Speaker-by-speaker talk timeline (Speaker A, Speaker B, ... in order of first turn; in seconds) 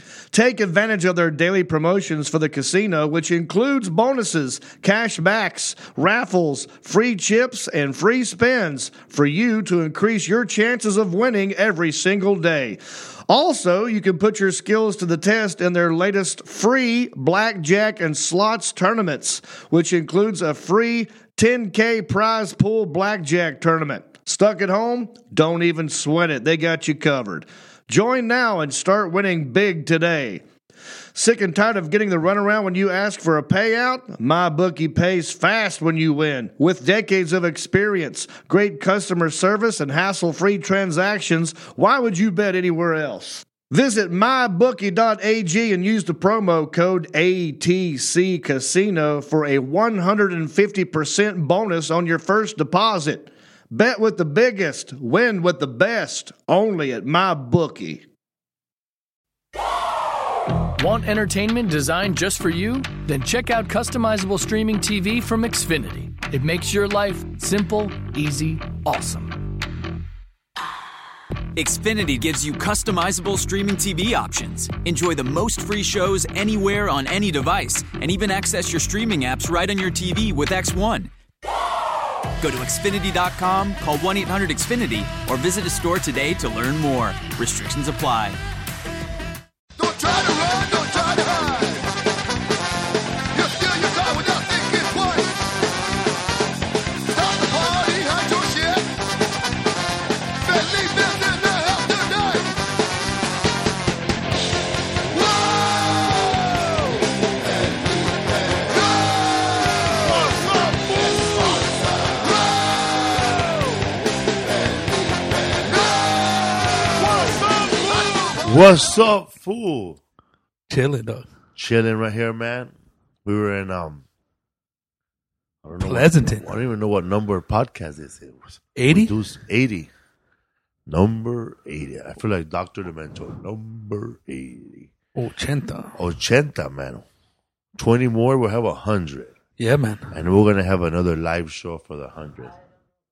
Speaker A: 0.3-30.4, 31.1-58.0
Speaker B: 60.8-69.4
Speaker C: 71.6-81.1, 82.4-88.4
Speaker D: 89.8-91.9, 93.3-95.4, 97.1-98.9, 100.5-102.5, 105.2-106.2, 110.0-111.0, 115.6-116.0, 116.9-118.5
Speaker E: 118.4-120.0, 121.6-122.7, 123.2-124.0, 125.6-129.9, 130.9-134.9, 136.0-137.1, 137.8-139.3, 140.1-142.6
Speaker F: 120.7-121.2, 125.8-126.4, 128.8-129.1, 135.2-136.0, 139.6-140.1